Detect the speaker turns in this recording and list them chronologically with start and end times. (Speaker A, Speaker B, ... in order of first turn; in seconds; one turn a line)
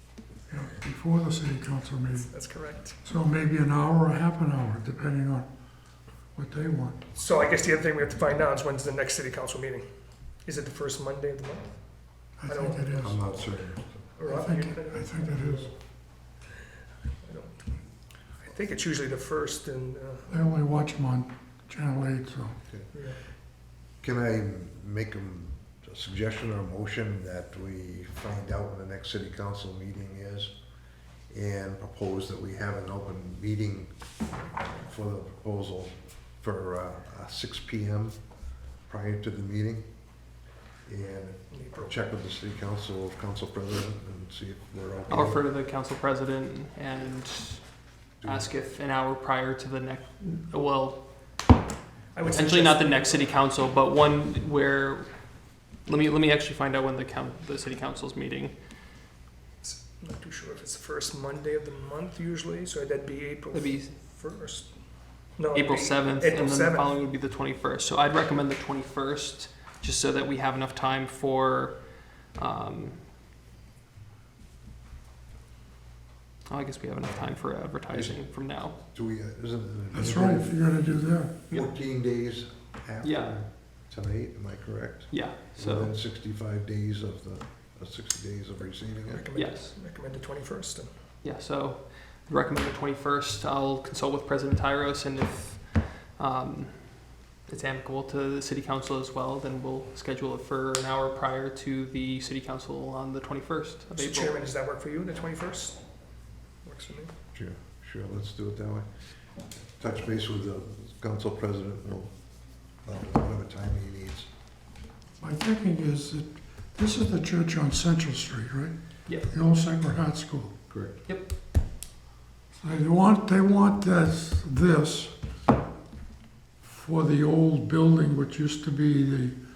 Speaker A: 0.5-2.3
Speaker B: 2.3-3.0
Speaker A: 3.0-5.5
Speaker A: 6.3-7.0
Speaker B: 7.1-9.8
Speaker B: 10.4-13.2
Speaker A: 12.4-13.2
Speaker C: 13.0-14.1
Speaker B: 14.2-15.8
Speaker A: 14.3-15.7
Speaker B: 17.2-17.7
Speaker B: 18.4-20.3
Speaker A: 20.3-22.6
Speaker B: 22.9-23.2
Speaker C: 23.5-30.6
Speaker C: 31.3-34.0
Speaker C: 34.7-38.2
Speaker C: 38.8-40.0
Speaker C: 40.9-45.5
Speaker B: 41.5-41.9
Speaker D: 45.1-51.1
Speaker C: 48.2-48.5
Speaker B: 52.1-53.3
Speaker D: 52.2-58.5
Speaker B: 59.6-67.0
Speaker D: 63.5-64.0
Speaker D: 65.5-73.1
Speaker D: 76.5-78.8
Speaker C: 77.0-80.5
Speaker A: 79.9-81.3
Speaker C: 81.5-89.2
Speaker D: 83.0-83.4
Speaker D: 85.1-86.0
Speaker B: 89.1-90.9
Speaker D: 89.3-89.7
Speaker D: 91.2-104.5
Speaker B: 104.0-106.1
Speaker B: 106.6-107.1
Speaker C: 107.3-114.3
Speaker A: 115.2-120.5
Speaker C: 120.7-121.1
Speaker D: 121.1-121.4
Speaker A: 122.6-125.2
Speaker A: 126.6-129.4